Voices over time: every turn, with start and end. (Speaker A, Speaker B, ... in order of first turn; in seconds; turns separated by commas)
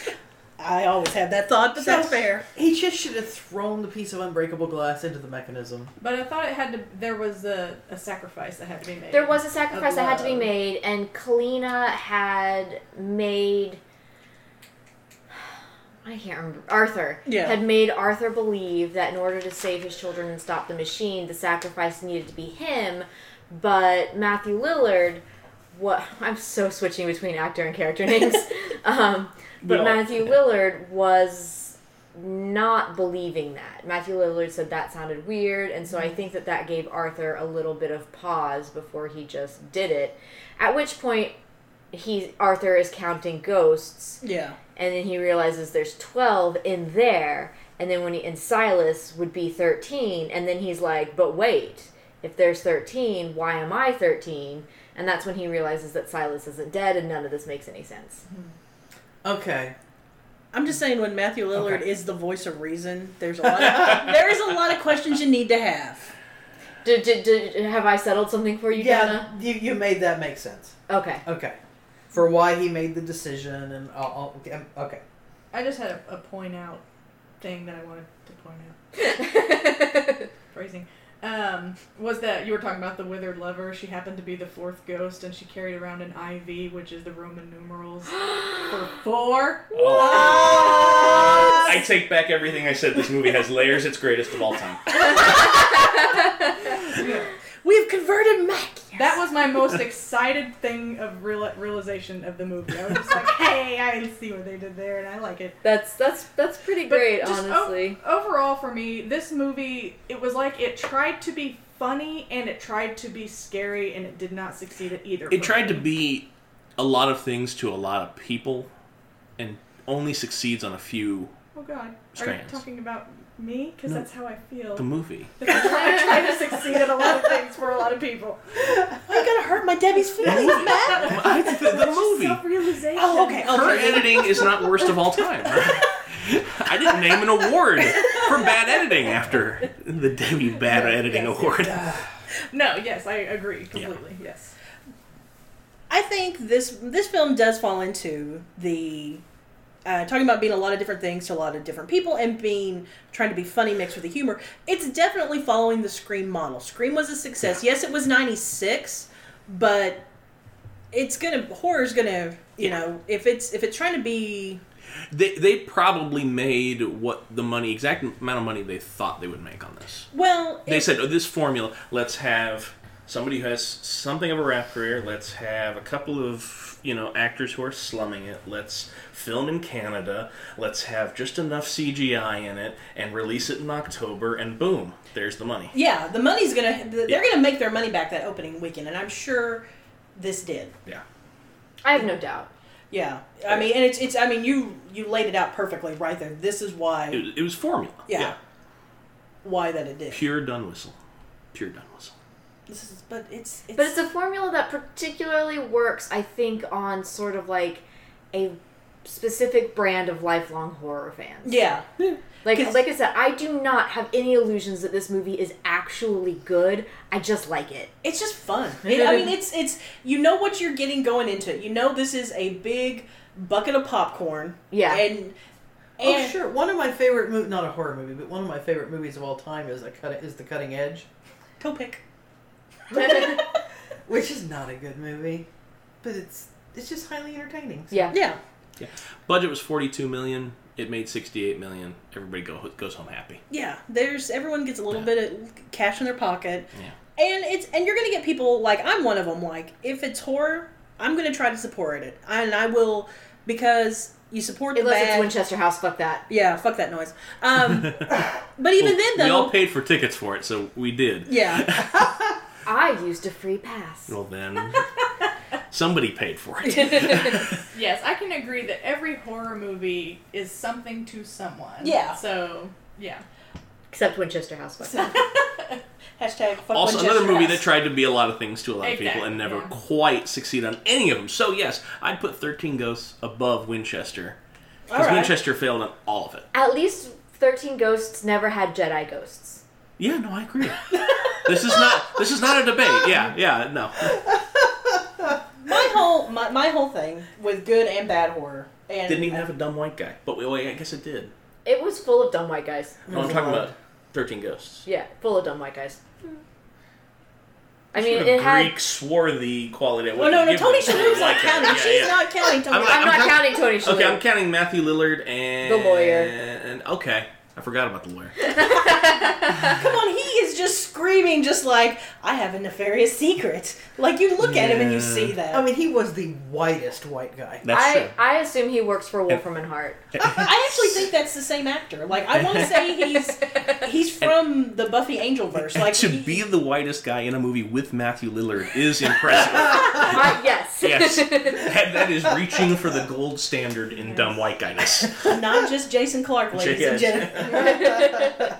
Speaker A: 0.6-2.5, Speaker B: 1.8-5.9, Speaker C: 6.0-10.5, Speaker D: 9.1-13.8, Speaker D: 16.0-41.3, Speaker A: 17.2-17.6, Speaker E: 29.6-30.3, Speaker D: 41.9-44.2, Speaker A: 44.2-44.6, Speaker D: 44.8-58.2, Speaker B: 59.2-59.7, Speaker A: 60.5-66.1, Speaker D: 66.8-69.3, Speaker B: 68.7-71.6, Speaker D: 70.9-71.2, Speaker B: 72.1-75.0, Speaker C: 75.5-76.8, Speaker C: 77.4-78.8, Speaker D: 79.0-80.3, Speaker C: 80.5-90.3, Speaker E: 89.7-95.4, Speaker A: 90.0-91.7, Speaker A: 95.1-95.5, Speaker A: 96.8-99.2, Speaker C: 98.9-105.5, Speaker D: 105.6-108.0, Speaker C: 106.8-115.9, Speaker E: 115.3-118.7, Speaker E: 119.4-121.3, Speaker C: 121.5-124.9, Speaker E: 122.1-122.6, Speaker E: 124.8-125.6, Speaker C: 125.4-128.4, Speaker A: 129.0-131.4, Speaker C: 130.2-134.8, Speaker E: 130.2-132.4, Speaker A: 132.9-134.9, Speaker E: 133.4-141.9, Speaker A: 140.7-141.5, Speaker C: 142.5-144.5, Speaker A: 145.9-149.2, Speaker A: 149.8-160.0, Speaker A: 160.9-164.6, Speaker E: 165.1-170.1, Speaker A: 170.1-170.9, Speaker E: 170.7-185.7, Speaker A: 185.7-190.7, Speaker D: 191.8-192.5, Speaker A: 192.9-197.2, Speaker E: 197.1-198.3, Speaker A: 198.1-198.3, Speaker A: 199.4-200.2, Speaker E: 200.1-200.9, Speaker E: 201.5-202.1, Speaker A: 202.7-203.9, Speaker D: 203.7-211.7, Speaker A: 211.4-211.9, Speaker D: 212.4-217.9, Speaker A: 212.5-212.8, Speaker A: 218.0-225.3, Speaker D: 224.7-225.1, Speaker A: 226.0-226.4, Speaker B: 226.0-231.1, Speaker A: 231.6-232.0, Speaker B: 232.9-233.4, Speaker D: 232.9-233.2, Speaker B: 234.1-235.5, Speaker B: 236.0-238.1, Speaker D: 237.9-238.2, Speaker A: 238.1-238.4, Speaker E: 238.8-243.4, Speaker A: 243.5-255.3, Speaker D: 254.7-256.2, Speaker A: 256.3-259.5, Speaker E: 257.7-258.0, Speaker E: 258.8-262.1, Speaker A: 261.3-261.6, Speaker D: 262.6-264.1, Speaker E: 264.1-264.8, Speaker E: 265.7-267.6, Speaker D: 266.8-267.4, Speaker C: 267.7-273.2, Speaker A: 271.8-272.2, Speaker D: 273.9-275.2, Speaker C: 275.4-275.7, Speaker A: 276.2-277.7, Speaker E: 276.7-284.4, Speaker C: 278.8-279.8, Speaker A: 284.9-285.3, Speaker E: 284.9-286.5, Speaker D: 286.5-289.6, Speaker E: 290.0-294.2, Speaker A: 295.6-299.4, Speaker E: 299.1-301.3, Speaker D: 301.6-303.0, Speaker E: 303.1-304.8, Speaker B: 303.1-303.7, Speaker D: 304.8-306.0, Speaker D: 307.9-308.8, Speaker E: 307.9-318.5, Speaker A: 310.1-313.4, Speaker D: 312.8-314.2, Speaker D: 315.6-316.3, Speaker D: 318.4-319.7, Speaker A: 319.5-325.6, Speaker E: 324.5-325.3, Speaker B: 325.5-327.6, Speaker E: 327.6-328.1, Speaker D: 327.7-330.0, Speaker E: 330.2-330.5, Speaker A: 330.4-336.4, Speaker E: 332.4-332.8, Speaker E: 335.6-345.4, Speaker D: 339.8-341.7, Speaker A: 345.2-347.9, Speaker E: 346.5-348.0, Speaker D: 347.5-348.4